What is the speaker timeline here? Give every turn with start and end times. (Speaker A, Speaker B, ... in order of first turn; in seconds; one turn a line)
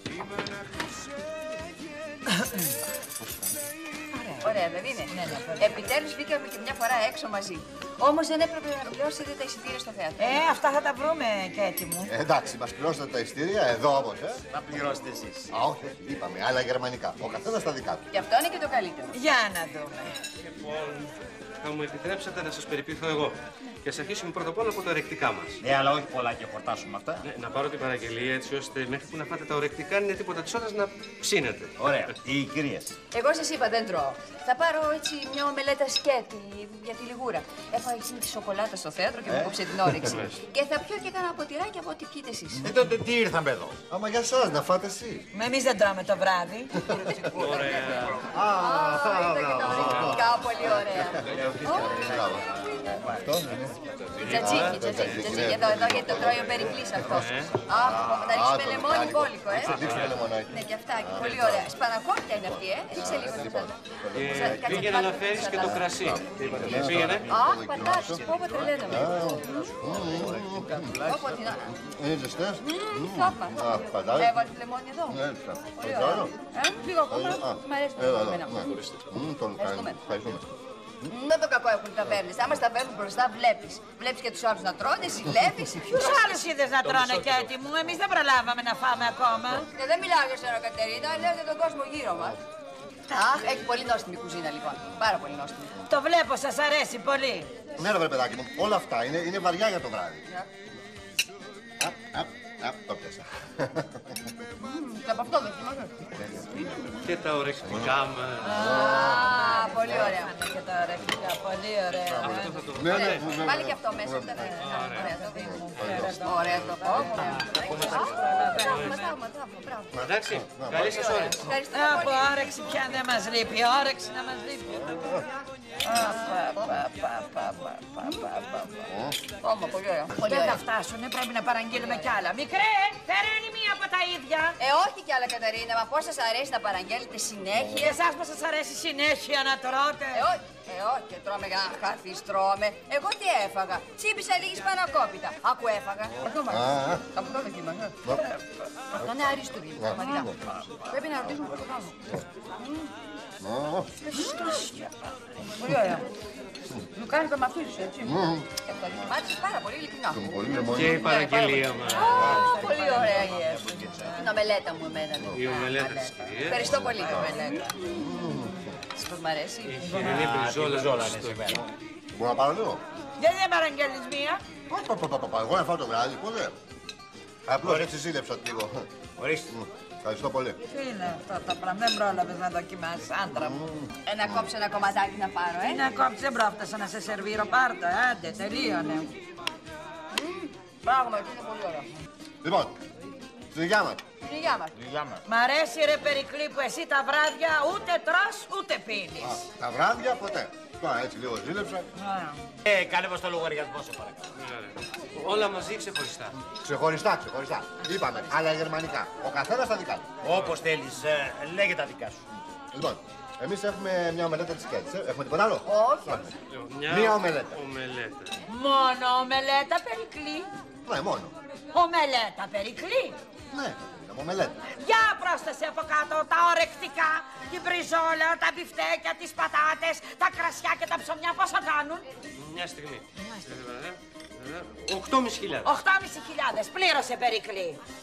Speaker A: 2.3-2.6
Speaker A: 4.1-5.9
Speaker B: 4.4-10.6
Speaker A: 10.2-12.1
Speaker C: 12.1-14.4
Speaker D: 14.5-15.5
Speaker C: 15.5-18.1
Speaker B: 18.1-19.2
Speaker A: 19.1-20.1
Speaker E: 20.4-25.6
Speaker D: 25.6-27.2
Speaker E: 27.2-32.1
Speaker D: 31.8-33.0
Speaker B: 33.1-42.7
Speaker D: 39.3-39.6
Speaker E: 40.0-40.4
Speaker D: 42.6-43.8
Speaker C: 43.9-45.2
Speaker A: 45.3-46.8
Speaker B: 46.8-51.9
Speaker E: 47.3-48.3
Speaker C: 48.3-61.7
Speaker E: 49.7-50.2
Speaker D: 51.2-53.2
Speaker E: 54.1-55.4
Speaker B: 54.2-66.2
Speaker E: 57.1-57.5
Speaker E: 59.6-60.2
Speaker C: 62.4-68.2
Speaker E: 64.1-67.2
Speaker D: 66.3-67.4
Speaker B: 67.3-69.7
Speaker D: 68.1-69.0
Speaker C: 68.8-71.0
Speaker D: 69.6-71.1
Speaker B: 70.8-71.7
Speaker C: 71.7-74.4
Speaker B: 72.6-75.2
Speaker C: 75.1-76.3
Speaker B: 75.8-78.8
Speaker C: 77.1-80.5
Speaker B: 79.6-80.0
Speaker B: 81.0-86.4
Speaker A: 85.9-89.7
Speaker B: 89.5-92.4
Speaker B: 93.1-95.8
Speaker A: 95.8-97.5
Speaker C: 97.8-100.2
Speaker C: 101.8-104.3
Speaker B: 104.6-106.1
Speaker C: 106.2-106.7
Speaker E: 107.0-108.6
Speaker C: 107.6-110.1
Speaker A: 108.4-112.6
Speaker B: 108.6-110.3
Speaker C: 112.2-114.5
Speaker E: 112.2-113.4
Speaker B: 112.9-120.0
Speaker A: 114.4-119.0
Speaker E: 114.6-115.1
Speaker C: 115.4-116.9
Speaker E: 117.6-119.1
Speaker C: 119.9-121.2
Speaker E: 120.0-121.5
Speaker B: 120.7-122.4
Speaker A: 121.7-125.2
Speaker C: 124.7-125.2
Speaker A: 125.8-128.9
Speaker C: 128.9-129.2
Speaker B: 129.4-130.6
Speaker A: 130.2-134.6
Speaker B: 131.7-132.2
Speaker B: 134.6-138.0
Speaker A: 137.7-140.3
Speaker B: 140.1-147.9
Speaker C: 146.5-147.1
Speaker A: 148.1-148.4
Speaker B: 148.9-152.0
Speaker C: 149.0-150.3
Speaker A: 149.9-150.3
Speaker B: 152.6-152.9
Speaker C: 153.4-153.9
Speaker A: 154.1-155.7
Speaker B: 154.1-154.5
Speaker B: 155.5-156.1
Speaker B: 156.9-163.6
Speaker C: 158.0-158.5
Speaker C: 160.1-161.3
Speaker E: 160.7-162.2
Speaker A: 161.8-164.3
Speaker D: 162.1-164.1
Speaker B: 164.1-167.7
Speaker E: 165.3-166.7
Speaker C: 166.6-168.8
Speaker A: 166.9-167.7
Speaker B: 168.9-170.0
Speaker E: 169.6-171.7
Speaker A: 169.8-170.3
Speaker D: 170.0-171.7
Speaker C: 172.1-172.8
Speaker A: 173.2-174.4
Speaker C: 174.7-176.6
Speaker C: 177.4-178.9
Speaker D: 177.6-177.9
Speaker D: 179.2-179.5
Speaker C: 179.5-180.6
Speaker A: 180.7-183.6
Speaker C: 183.3-184.5
Speaker B: 184.1-185.8
Speaker A: 185.6-189.1
Speaker B: 190.1-191.9
Speaker C: 192.4-192.8
Speaker C: 193.5-194.0
Speaker B: 194.2-194.7
Speaker D: 194.8-195.2
Speaker A: 195.2-199.4
Speaker C: 199.2-201.9
Speaker A: 201.9-202.5
Speaker D: 202.6-204.3
Speaker E: 204.3-206.4
Speaker C: 206.6-210.2
Speaker D: 210.2-212.2
Speaker E: 210.3-210.6
Speaker C: 212.7-216.3
Speaker B: 215.7-216.3
Speaker E: 216.5-218.3
Speaker C: 216.9-217.6
Speaker A: 218.5-220.5
Speaker C: 220.8-221.3
Speaker A: 221.7-223.2
Speaker C: 223.5-224.6
Speaker A: 224.7-232.1
Speaker E: 232.3-235.7
Speaker A: 235.6-237.8